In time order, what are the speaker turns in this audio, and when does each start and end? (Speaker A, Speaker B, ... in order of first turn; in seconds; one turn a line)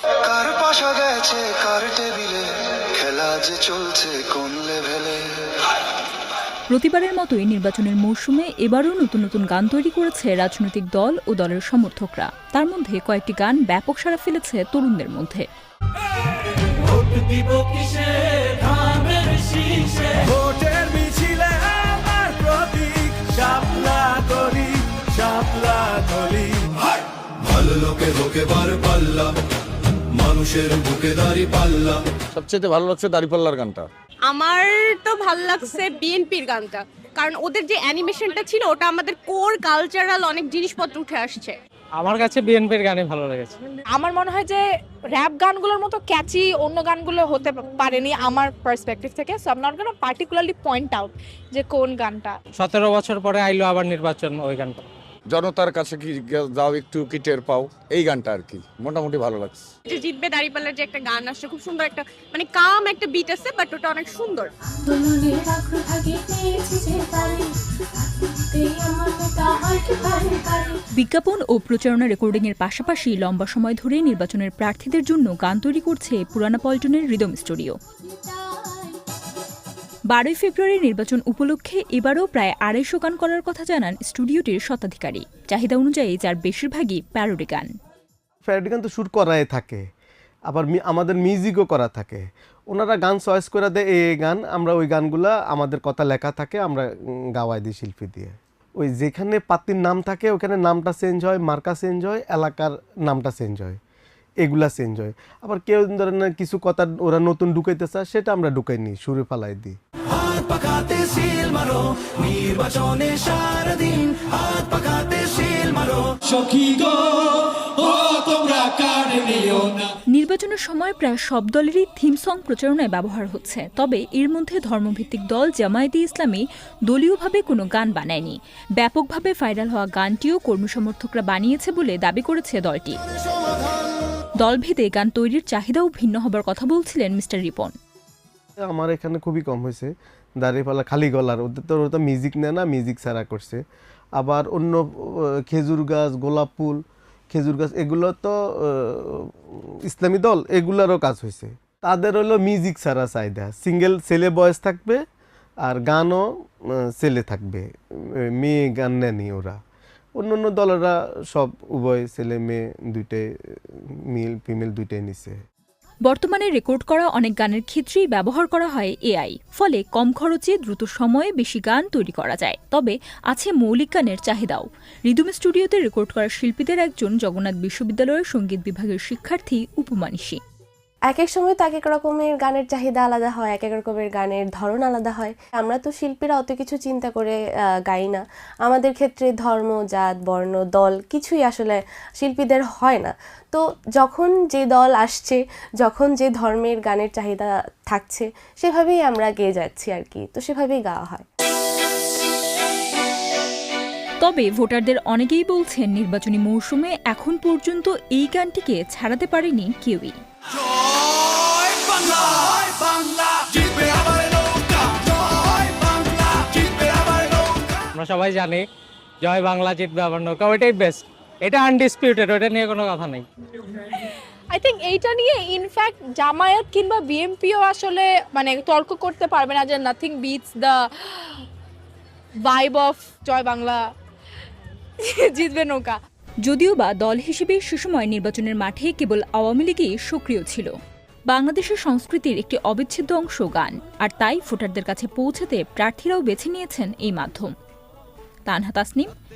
Speaker A: 0.2-5.3
Speaker B: 6.7-15.5
Speaker C: 20.3-26.8
Speaker C: 27.4-29.4
Speaker C: 30.1-32.0
Speaker D: 32.3-33.9
Speaker E: 34.2-41.5
Speaker F: 42.0-43.5
Speaker G: 43.9-44.6
Speaker G: 45.1-52.3
Speaker F: 52.6-54.8
Speaker D: 55.3-59.6
Speaker E: 59.9-64.5
Speaker H: 64.8-70.8
Speaker B: 71.0-77.8
Speaker B: 80.1-87.7
Speaker I: 88.4-89.8
Speaker I: 90.5-103.8
Speaker I: 104.4-109.8
Speaker J: 110.2-116.0
Speaker C: 116.5-116.8
Speaker B: 120.1-133.0
Speaker B: 134.4-137.7
Speaker I: 138.6-143.6
Speaker I: 144.2-146.8
Speaker I: 147.3-155.0
Speaker I: 155.6-156.2
Speaker I: 157.0-157.7
Speaker I: 158.4-159.6
Speaker I: 160.2-163.2
Speaker I: 164.1-165.4
Speaker B: 166.0-180.4
Speaker H: 181.1-201.2
Speaker B: 204.2-210.2
Speaker F: 217.9-218.6
Speaker F: 219.2-223.2
Speaker G: 223.9-231.4
Speaker G: 232.5-233.8
Speaker G: 235.0-236.0
Speaker B: 236.4-240.7
Speaker B: 241.3-247.5
Speaker B: 248.4-249.1